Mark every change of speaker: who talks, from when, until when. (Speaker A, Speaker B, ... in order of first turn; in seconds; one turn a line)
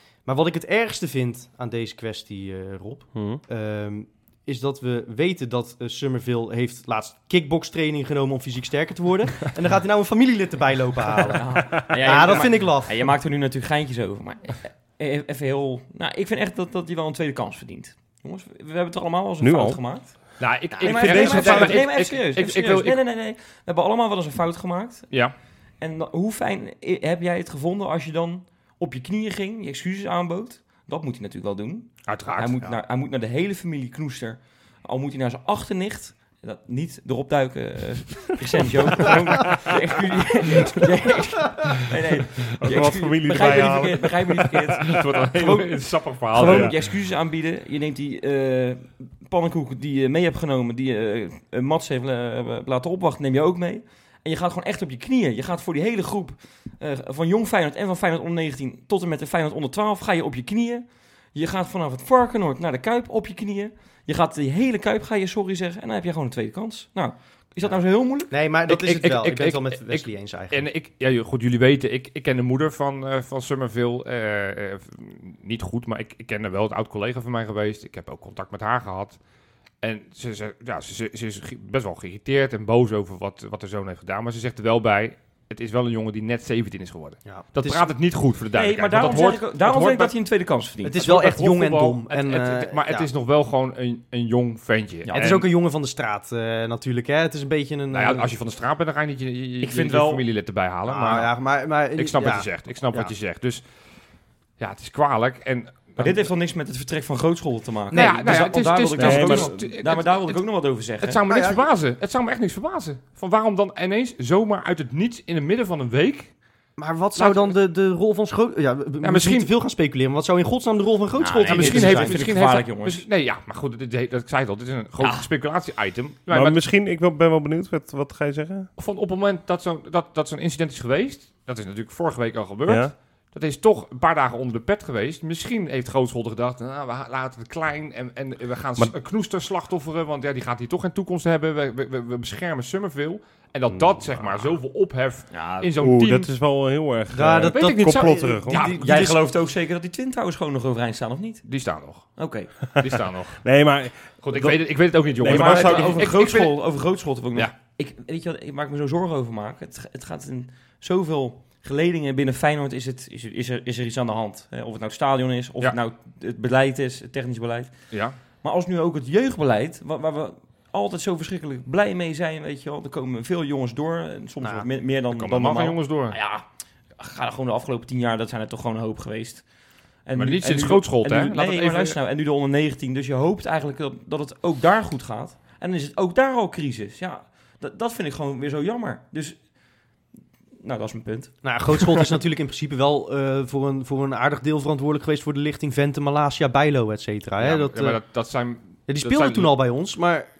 Speaker A: 0.2-13.0
Speaker B: 3.1-3.4
Speaker C: 11.2-20.1
Speaker B: 19.4-19.8
Speaker D: 20.4-23.0
Speaker C: 20.8-25.1
Speaker B: 20.8-21.8
Speaker D: 25.1-25.3
Speaker C: 25.8-68.3
Speaker D: 32.1-32.7
Speaker B: 42.6-44.7
Speaker D: 44.7-46.7
Speaker B: 46.4-46.7
Speaker A: 68.3-70.6
Speaker D: 68.7-79.2
Speaker D: 79.8-90.1
Speaker A: 87.2-87.9
Speaker C: 88.5-91.0
Speaker A: 90.8-93.1
Speaker D: 91.0-95.4
Speaker C: 95.0-95.4
Speaker A: 95.1-98.3
Speaker D: 97.9-101.3
Speaker C: 99.6-100.2
Speaker A: 100.9-103.1
Speaker D: 102.0-103.6
Speaker D: 104.6-106.2
Speaker C: 106.0-111.2
Speaker A: 107.9-108.6
Speaker D: 107.9-110.4
Speaker B: 109.0-109.7
Speaker D: 111.0-116.3
Speaker A: 111.3-111.6
Speaker A: 116.8-122.2
Speaker D: 117.2-117.5
Speaker D: 119.0-119.5
Speaker C: 121.2-123.0
Speaker D: 121.5-126.6
Speaker C: 125.0-125.3
Speaker B: 126.3-128.7
Speaker D: 128.8-146.3
Speaker B: 132.7-132.9
Speaker C: 145.3-145.7
Speaker B: 145.8-148.6
Speaker A: 147.1-149.2
Speaker D: 147.5-148.9
Speaker C: 148.6-151.4
Speaker D: 151.4-152.2
Speaker C: 152.2-152.6
Speaker D: 152.7-153.4
Speaker B: 153.4-156.2
Speaker D: 154.2-156.6
Speaker C: 155.2-167.7
Speaker D: 167.9-168.2
Speaker C: 168.4-176.4
Speaker A: 174.4-174.7
Speaker D: 175.1-176.2
Speaker C: 177.0-179.4
Speaker C: 180.0-189.4
Speaker D: 180.1-182.0
Speaker C: 190.6-192.0
Speaker A: 191.4-198.0
Speaker D: 197.4-199.5
Speaker A: 198.9-200.3